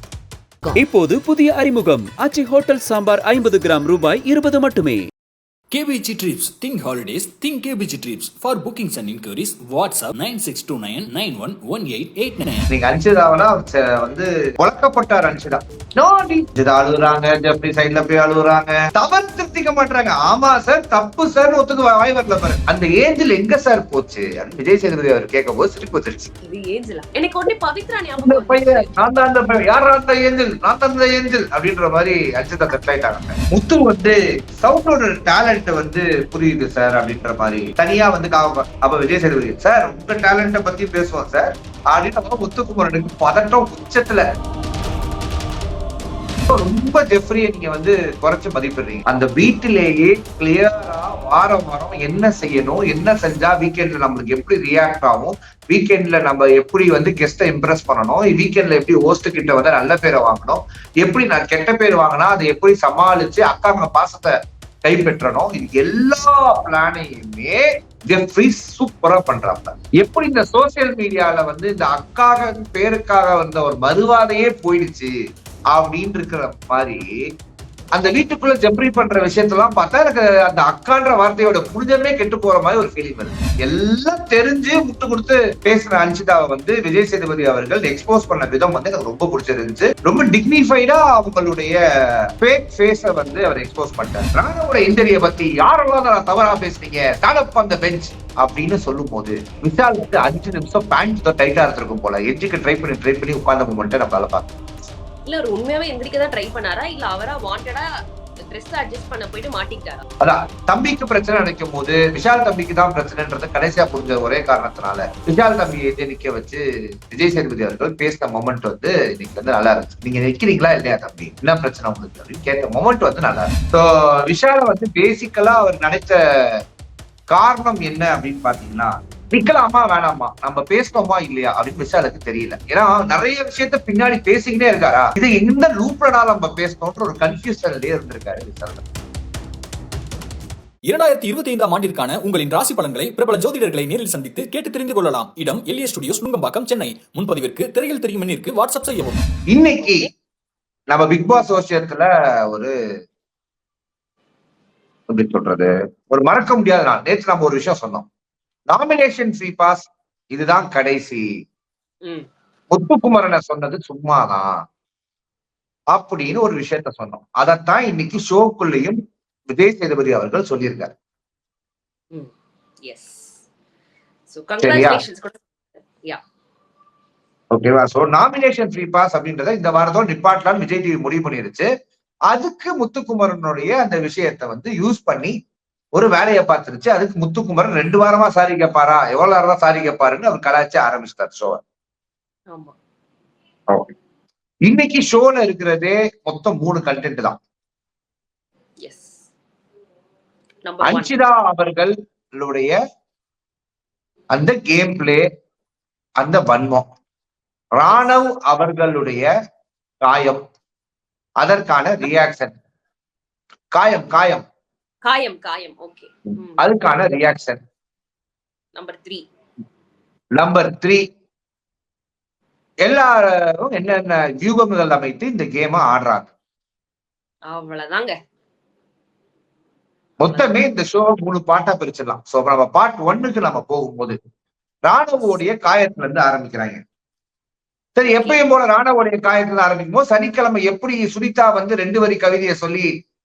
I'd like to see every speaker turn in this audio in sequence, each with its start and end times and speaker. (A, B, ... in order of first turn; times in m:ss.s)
0:00.7-0:05.0 A
0:05.7-0:12.7 B
0:12.7-0:26.3 C
0:26.4-0:28.9 D
0:28.2-0:44.2 C
0:46.5-1:04.3 C
1:04.8-1:15.1 C
1:15.7-1:17.0 C
1:17.9-1:31.7 C
1:32.4-1:44.5 C
1:45.2-1:47.8 D
1:48.5-1:50.0 D
1:50.2-2:06.2 C
2:07.3-2:18.8 C
2:20.9-2:29.2 B
2:29.5-2:30.1 C
2:30.9-2:32.7 C
2:35.1-2:38.1 C
2:38.7-2:41.2 C
2:42.7-2:44.5 C
2:45.9-2:50.9 C
2:52.8-2:53.3 D
2:54.3-2:55.4 D
2:54.6-2:55.0 C
2:57.5-3:01.7 C
3:02.3-3:05.3 C
3:05.9-3:11.6 C
3:14.6-3:17.4 C
3:18.8-3:19.2 D
3:20.6-3:21.1 D
3:20.8-3:22.7 C
3:24.3-3:25.2 C
3:26.2-3:26.8 C
3:27.8-3:29.3 C
3:30.0-3:30.4 C
3:31.4-3:32.6 C
3:33.7-3:34.4 C
3:35.0-3:36.6 D
3:36.6-3:37.6 C
3:38.7-3:39.2 D
3:40.4-3:41.0 C
3:42.8-3:46.3 C
3:47.5-3:48.2 D
3:50.2-3:54.2 C
3:50.3-3:50.5 D
3:54.8-3:56.8 C
3:58.0-4:02.9 C
3:58.0-3:58.4 D